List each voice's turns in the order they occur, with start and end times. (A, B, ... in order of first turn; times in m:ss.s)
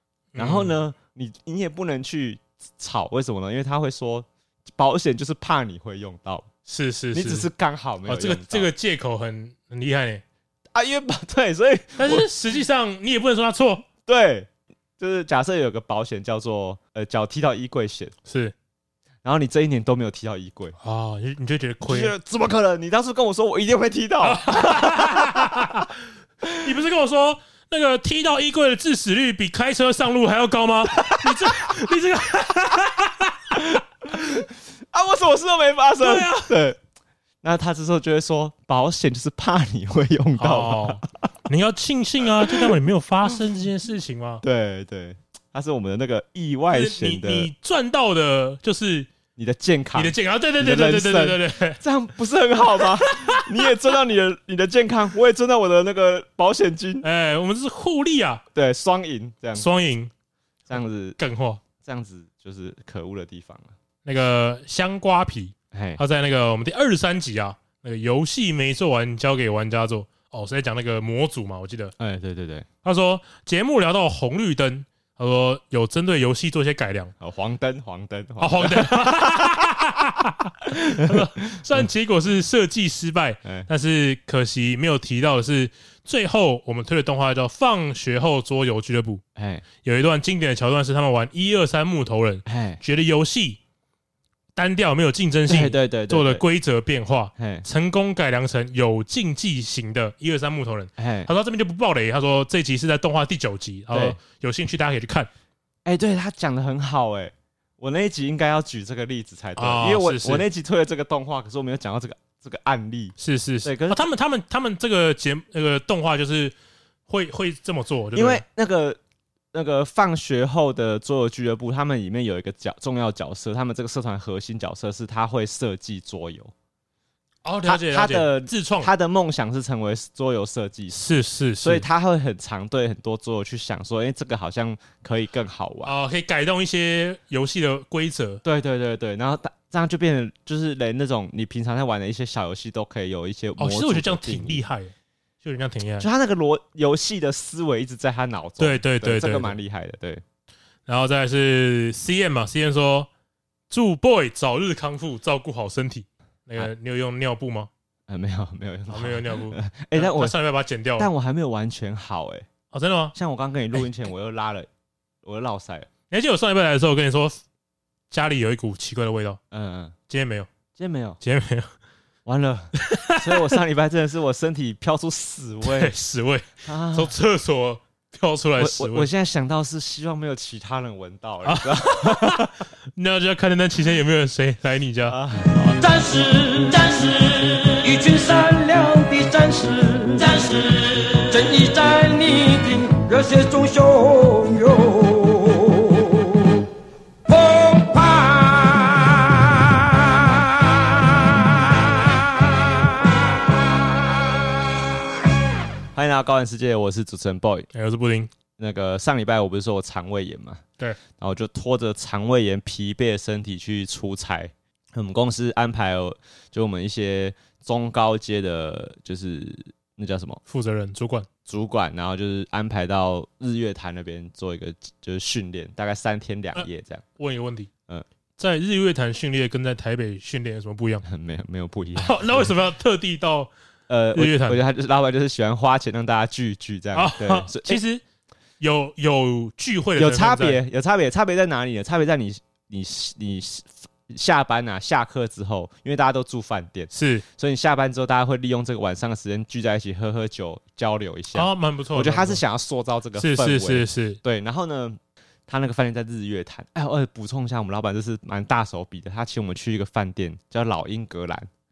0:00.3-0:00.8 A
0:00.4-0:06.5 B
0:06.7-0:07.5 A
0:07.1-0:08.7 B
0:08.0-0:10.2 A
0:10.7-0:12.3 B
0:12.0-0:13.8 A
0:14.0-0:18.1 B
0:18.2-0:18.5 A
0:19.2-0:20.8 B
0:20.8-0:22.1 A
0:21.8-0:25.6 B
0:24.2-0:25.9 A
0:26.4-0:26.7 B
0:26.6-0:33.6 A
0:30.9-0:31.7 B
0:33.5-0:36.8 B
0:36.0-0:36.5 A
0:37.4-0:41.0 B
0:40.4-0:44.4 A
0:42.4-0:42.8 B
0:44.4-0:47.5 B
0:46.7-0:49.1 A
0:49.4-0:57.0 B
0:49.9-0:51.8 A
0:53.0-0:53.4 A
0:57.0-0:58.4 A
0:58.5-0:59.7 B
0:59.5-1:00.1 A
1:00.7-1:01.2 B
1:01.2-1:01.6 A
1:01.8-1:03.7 B
1:04.0-1:11.9 A
1:05.7-1:06.0 B
1:12.0-1:12.7 B
1:12.8-1:17.1 A
1:17.2-1:19.7 B
1:18.4-1:29.2 A
1:20.9-1:21.9 B
1:29.4-1:29.6 B
1:29.8-1:33.6 A
1:32.4-1:32.8 B
1:34.5-1:45.3 A
1:35.5-1:36.4 B
1:37.4-1:37.6 B
1:41.0-1:41.3 B
1:43.9-1:44.2 B
1:45.8-1:54.0 B
1:49.6-1:50.4 A
1:53.2-1:56.5 A
1:57.1-1:58.4 A
1:58.1-1:59.0 B
1:59.5-2:06.5 B
2:07.4-2:08.9 A
2:07.6-2:11.0 B
2:10.9-2:11.8 A
2:11.6-2:15.9 B
2:15.8-2:18.4 A
2:18.4-2:24.6 B
2:23.6-2:26.1 A
2:26.0-2:30.2 B
2:28.6-2:29.6 A
2:30.9-2:33.1 A
2:33.7-2:37.7 A
2:38.1-2:40.3 B
2:38.9-2:41.1 A
2:41.0-2:42.5 B
2:42.7-2:43.1 A
2:43.1-2:44.7 B
2:45.2-2:45.9 B
2:46.1-2:47.4 A
2:48.1-2:49.4 A
2:49.5-2:49.9 B
2:50.1-2:50.5 A
2:50.8-2:51.2 B
2:51.2-2:51.7 A
2:52.2-2:55.9 B
2:52.8-2:53.6 A
2:55.6-2:59.1 A
2:56.6-2:57.1 B
2:58.6-3:02.5 B
3:01.4-3:05.2 A
3:05.1-3:05.8 B
3:05.8-3:16.6 C
3:17.3-3:20.4 C
3:25.9-3:27.7 B
3:27.7-3:28.3 A
3:28.6-3:30.6 B
3:31.2-3:40.4 B
3:40.5-3:41.3 A
3:41.5-3:47.0 B
3:46.6-3:47.7 A
3:48.4-3:51.0 A
3:51.0-3:52.5 B
3:52.0-3:53.5 A
3:53.9-3:57.8 B
3:54.1-3:54.6 A
3:56.9-3:58.0 A
3:58.6-4:00.6 A
4:00.0-4:21.5 B
4:06.9-4:07.2 A
4:11.3-4:12.4 A
4:13.2-4:14.2 A